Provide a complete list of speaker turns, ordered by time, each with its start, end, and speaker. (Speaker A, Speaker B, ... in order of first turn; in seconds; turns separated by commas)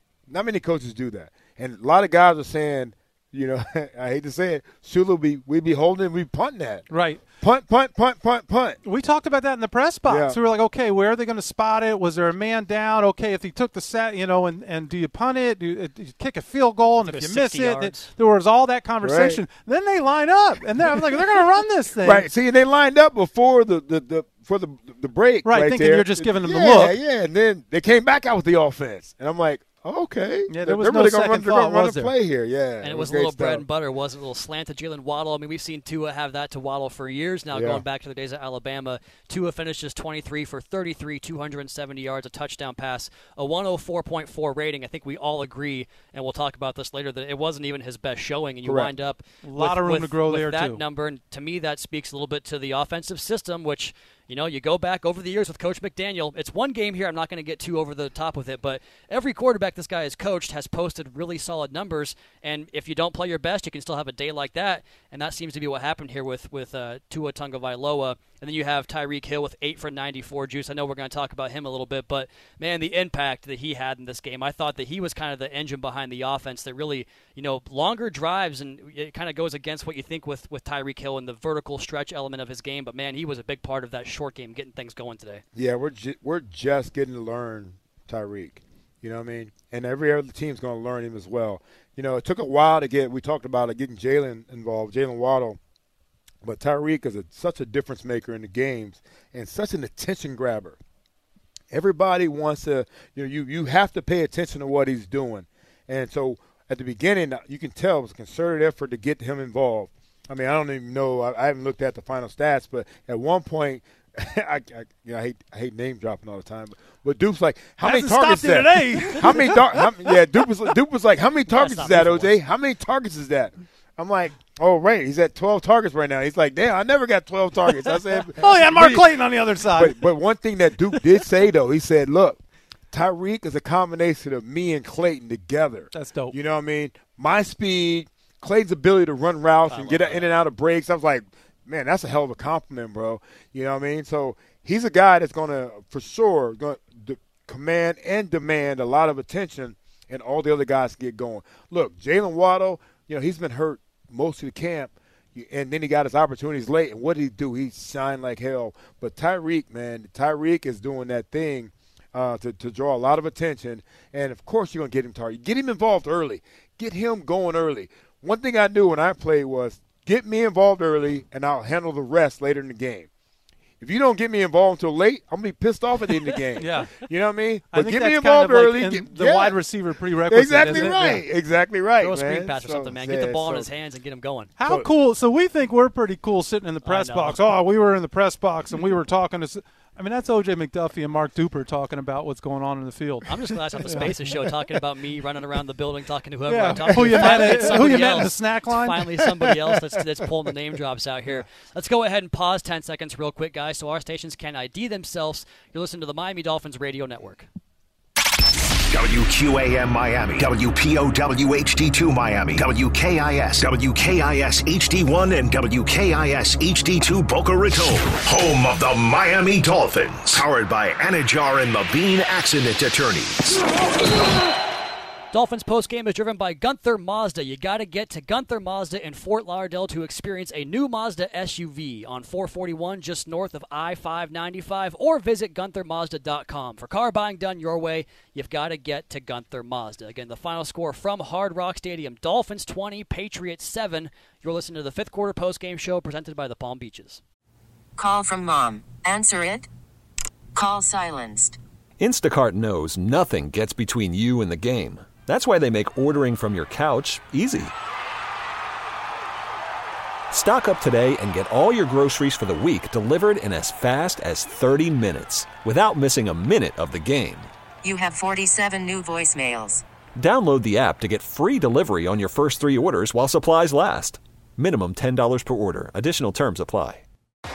Speaker A: 0.3-8.8, Speaker B: 6.9-7.2, Speaker B: 8.8-22.3, Speaker A: 10.1-10.4, Speaker C: 17.0-18.1, Speaker A: 19.0-19.4, Speaker A: 22.0-33.6, Speaker B: 25.4-27.0, Speaker B: 30.5-32.1, Speaker C: 32.8-85.4, Speaker A: 37.5-37.8, Speaker A: 48.6-48.9, Speaker B: 49.4-50.8, Speaker A: 85.5-95.6, Speaker A: 96.4-100.8, Speaker A: 101.7-129.2, Speaker B: 117.8-120.5, Speaker C: 121.5-122.3, Speaker B: 128.2-130.0, Speaker A: 129.7-173.1, Speaker B: 135.9-136.4, Speaker C: 139.7-140.3, Speaker A: 173.8-179.6, Speaker B: 176.6-176.9, Speaker B: 177.7-181.2, Speaker A: 180.3-183.7, Speaker C: 180.6-181.1, Speaker C: 182.0-184.5, Speaker B: 184.6-194.3, Speaker A: 184.6-184.9, Speaker C: 186.8-187.4, Speaker C: 193.2-207.5, Speaker B: 196.5-199.1, Speaker A: 196.9-198.2, Speaker A: 199.4-199.7, Speaker D: 208.9-223.7, Speaker C: 225.3-247.2, Speaker E: 248.0-249.7, Speaker E: 250.6-251.6, Speaker F: 252.0-257.7, Speaker F: 260.3-267.5, Speaker E: 267.8-269.8, Speaker F: 270.2-277.1